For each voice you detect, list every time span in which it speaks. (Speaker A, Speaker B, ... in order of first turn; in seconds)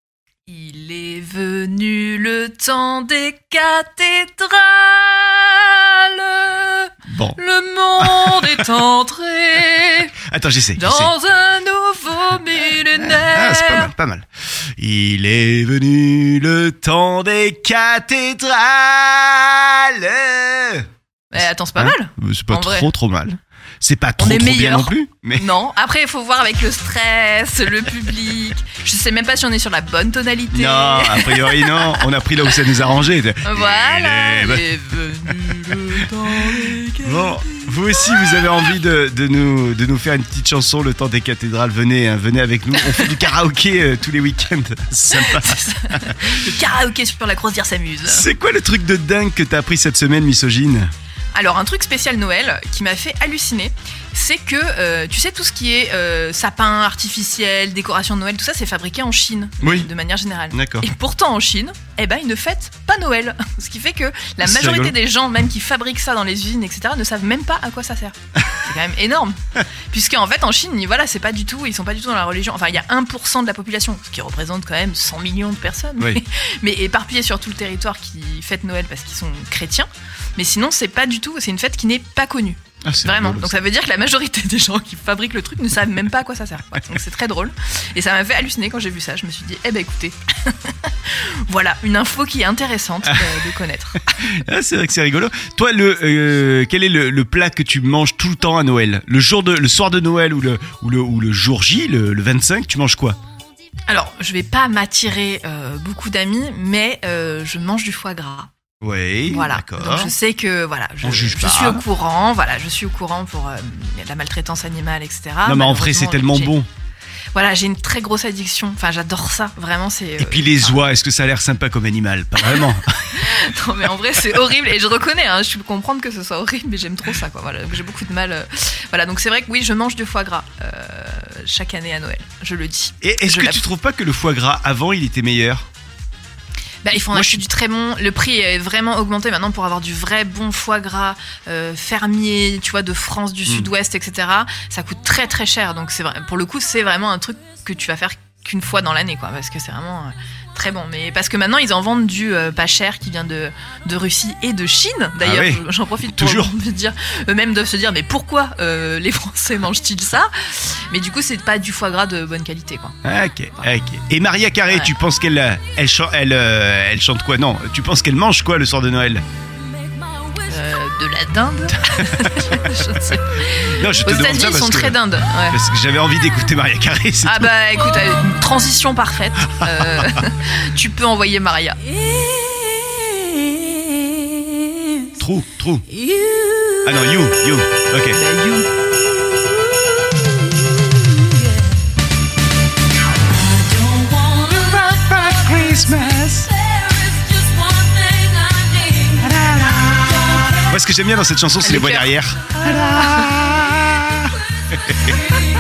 Speaker A: 0.5-10.1, 10.8-13.9, 21.3-22.9, 24.2-32.1, 33.5-38.4, 45.1-48.3, 51.3-69.4, 69.9-94.0, 103.9-108.5, 109.3-116.5, 117.3-120.8, 123.1-133.6, 136.8-163.0, 170.4-175.6, 177.2-182.0, 188.1-188.9, 198.2-199.1, 201.6-202.1, 202.7-203.3
Speaker B: 7.1-7.4, 8.0-8.7, 10.2-11.1, 12.9-20.9, 21.8-25.5, 30.5-46.5, 48.1-50.9, 59.6-59.9, 60.5-60.9, 64.4-65.0, 82.8-83.6, 93.0-93.4, 94.2-103.2, 108.8-110.1, 111.0-111.8, 115.5-116.7, 120.2-123.3, 133.0-135.7, 137.1-137.4, 155.2-156.5, 163.0-169.2, 173.6-177.5, 179.6-180.1, 185.2-185.9, 186.8-188.2, 193.6-196.5, 199.2-205.2